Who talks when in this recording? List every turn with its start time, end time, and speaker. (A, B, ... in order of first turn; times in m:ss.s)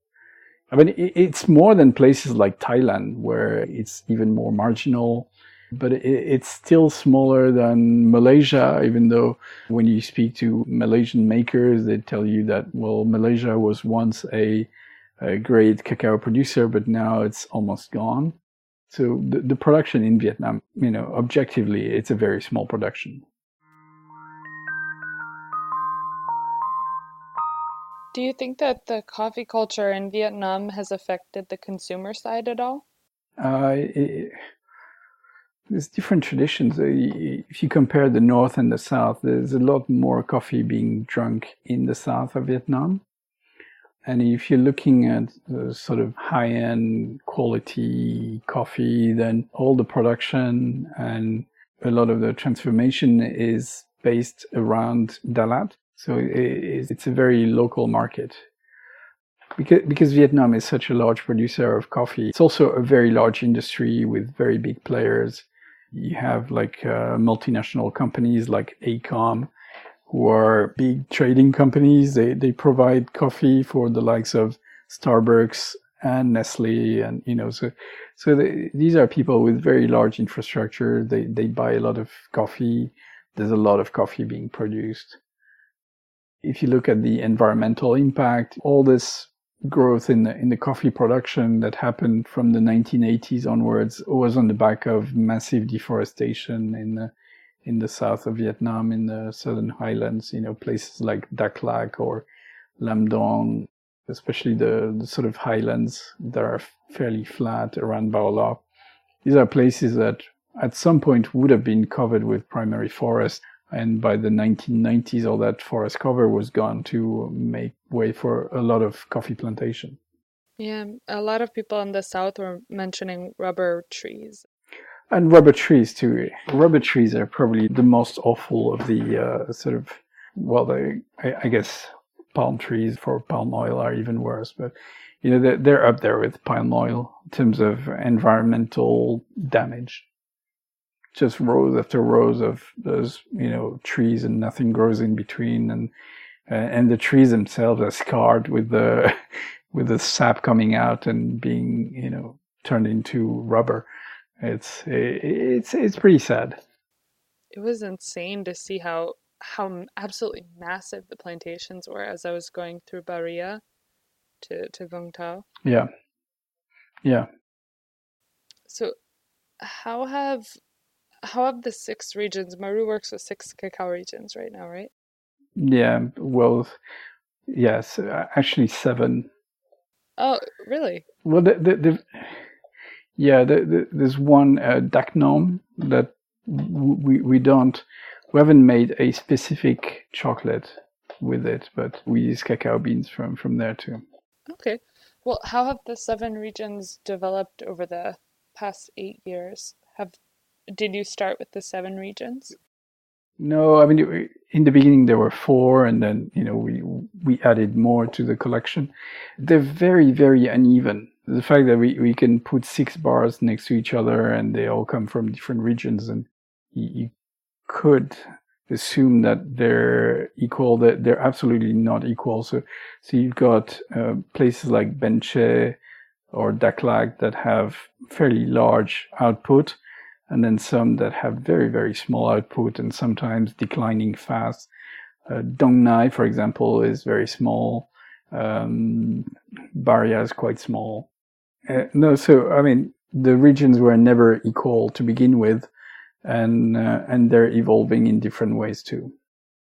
0:00.7-0:14.7 A
0:15.2-0:18.4 A
0:18.9-0:23.2 A
0:28.1-0:32.8 B
0:33.4-0:34.3 A
0:35.7-0:43.0 A
0:44.0-0:58.4 A
0:59.6-1:09.5 A
1:10.1-1:25.2 A
1:26.4-1:37.1 A
1:37.6-1:42.2 A
1:42.8-1:48.6 A
1:49.2-2:00.0 A
2:00.6-2:04.4 B
2:05.1-2:20.0 A
2:21.1-2:25.9 A
2:26.5-2:29.2 A
2:29.7-2:33.9 A
2:34.4-2:36.6 A
2:37.5-2:43.6 B
2:44.4-2:45.4 B
2:48.7-2:48.9 B
2:49.6-2:50.5 B
2:51.2-2:54.9 B
2:55.6-2:56.8 A
2:57.5-2:59.3 A
3:00.2-3:01.0 B
3:01.2-3:02.3 A
3:03.2-3:14.0 A
3:14.5-3:20.1 B
3:20.7-3:22.6 B
3:23.4-3:37.1 A
3:37.7-3:45.8 A
3:46.3-3:49.8 A
3:50.3-3:54.7 A
3:55.3-4:01.1 A
4:01.7-4:05.7 A
4:06.2-4:09.1 A